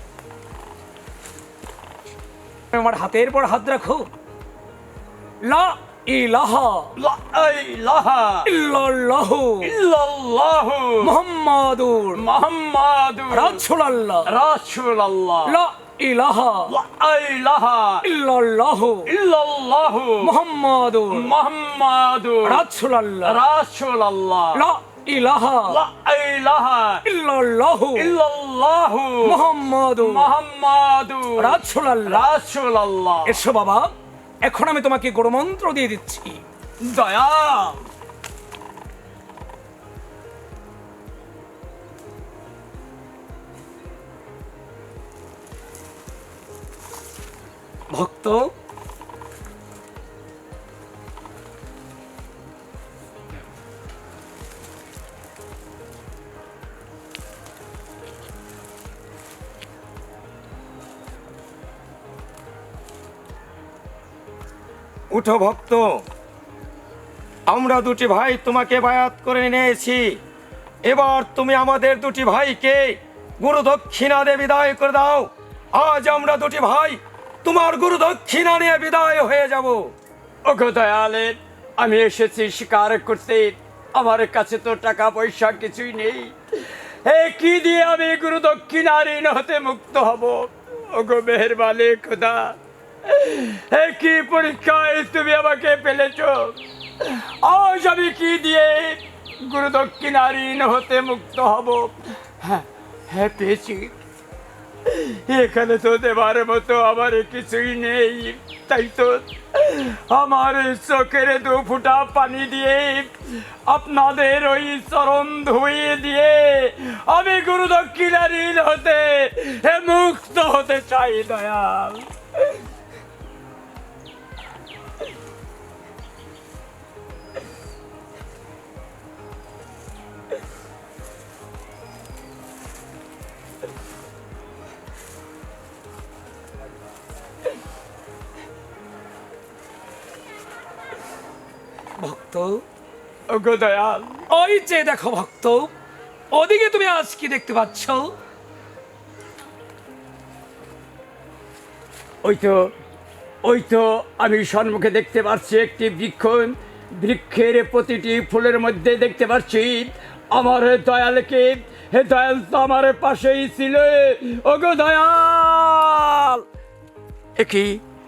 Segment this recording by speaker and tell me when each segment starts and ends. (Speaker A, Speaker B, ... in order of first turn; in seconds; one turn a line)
Speaker A: 2.7-4.1
Speaker A: 5.4-6.9
Speaker B: 7.0-8.5
Speaker A: 8.5-9.7
Speaker B: 9.6-11.2
Speaker A: 11.0-12.2
Speaker B: 12.2-13.6
Speaker A: 13.3-14.3
Speaker B: 14.3-15.5
Speaker A: 15.5-16.7
Speaker B: 16.7-18.0
Speaker A: 18.0-19.1
Speaker B: 19.1-20.3
Speaker A: 20.2-21.3
Speaker B: 21.1-22.6
Speaker A: 22.5-23.4
Speaker B: 23.2-24.6
Speaker A: 24.6-25.8
Speaker B: 25.7-27.0
Speaker A: 27.1-28.1
Speaker B: 28.0-29.4
Speaker A: 29.2-30.3
Speaker B: 30.0-33.4
Speaker A: 31.4-32.3
Speaker A: 33.3-33.9
Speaker A: 34.4-36.4
Speaker B: 36.8-37.9
Speaker A: 47.9-48.5
Speaker C: 65.1-66.0
Speaker C: 67.5-70.2
Speaker C: 70.8-79.9
Speaker B: 80.5-104.0
Speaker B: 104.9-122.1
Speaker A: 142.0-142.6
Speaker B: 143.3-144.2
Speaker A: 144.3-145.7
Speaker A: 146.3-148.1
Speaker B: 152.2-152.7
Speaker B: 153.4-166.4
Speaker B: 167.4-167.8